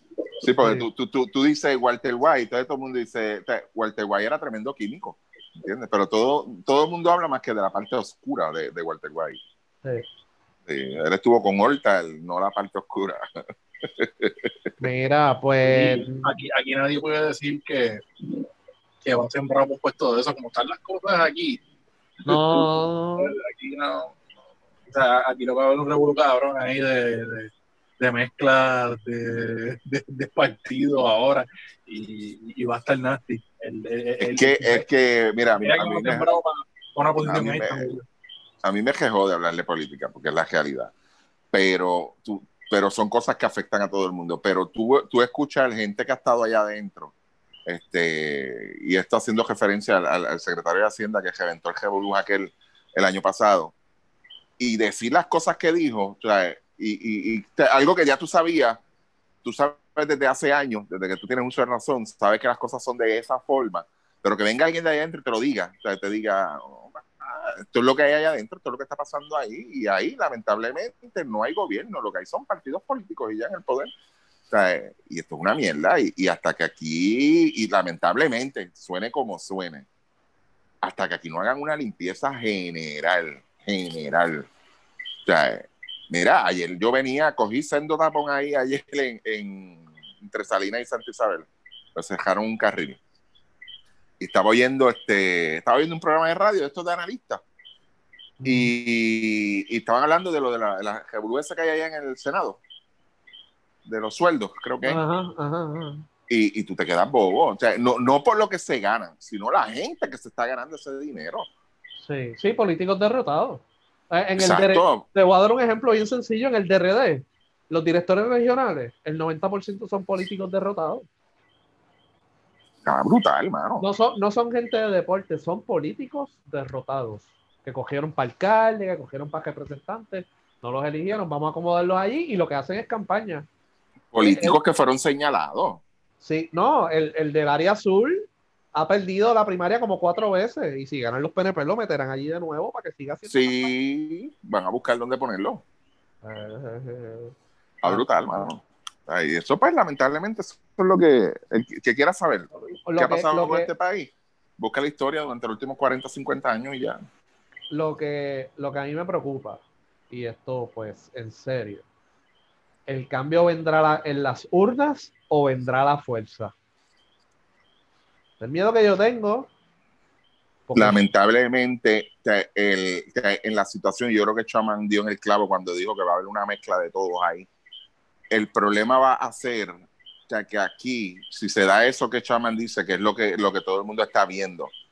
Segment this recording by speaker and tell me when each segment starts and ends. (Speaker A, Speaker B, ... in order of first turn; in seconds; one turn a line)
Speaker A: 0.4-9.4
Speaker A: 10.7-13.3
Speaker A: 13.8-14.5
Speaker B: 14.8-16.3
Speaker C: 15.6-18.0
Speaker C: 19.0-21.6
Speaker C: 22.2-24.1
Speaker B: 22.2-23.3
Speaker C: 24.9-34.9
Speaker A: 34.2-36.3
Speaker C: 35.6-38.0
Speaker A: 37.2-37.9
Speaker A: 38.6-40.9
Speaker A: 41.5-47.1
Speaker A: 47.6-53.7
Speaker A: 54.6-58.8
Speaker A: 59.4-73.9
Speaker A: 74.5-79.9
Speaker A: 80.8-84.5
Speaker A: 85.2-93.0
Speaker A: 94.2-97.4
Speaker B: 98.4-98.7
Speaker A: 98.4-102.6
Speaker A: 103.8-105.0
Speaker B: 104.8-106.0
Speaker A: 106.3-111.5
Speaker B: 112.0-121.0
Speaker A: 114.4-115.0
Speaker A: 122.8-123.8
Speaker B: 123.8-133.5
Speaker A: 134.1-135.8
Speaker B: 134.2-134.6
Speaker B: 136.2-143.7
Speaker A: 143.3-145.6
Speaker B: 146.2-147.3
Speaker A: 147.8-157.0
Speaker B: 147.8-148.5
Speaker B: 152.5-153.7
Speaker B: 157.7-161.8
Speaker B: 162.9-166.5
Speaker B: 168.4-169.5
Speaker B: 170.7-171.0
Speaker A: 170.7-177.5
Speaker A: 178.3-184.7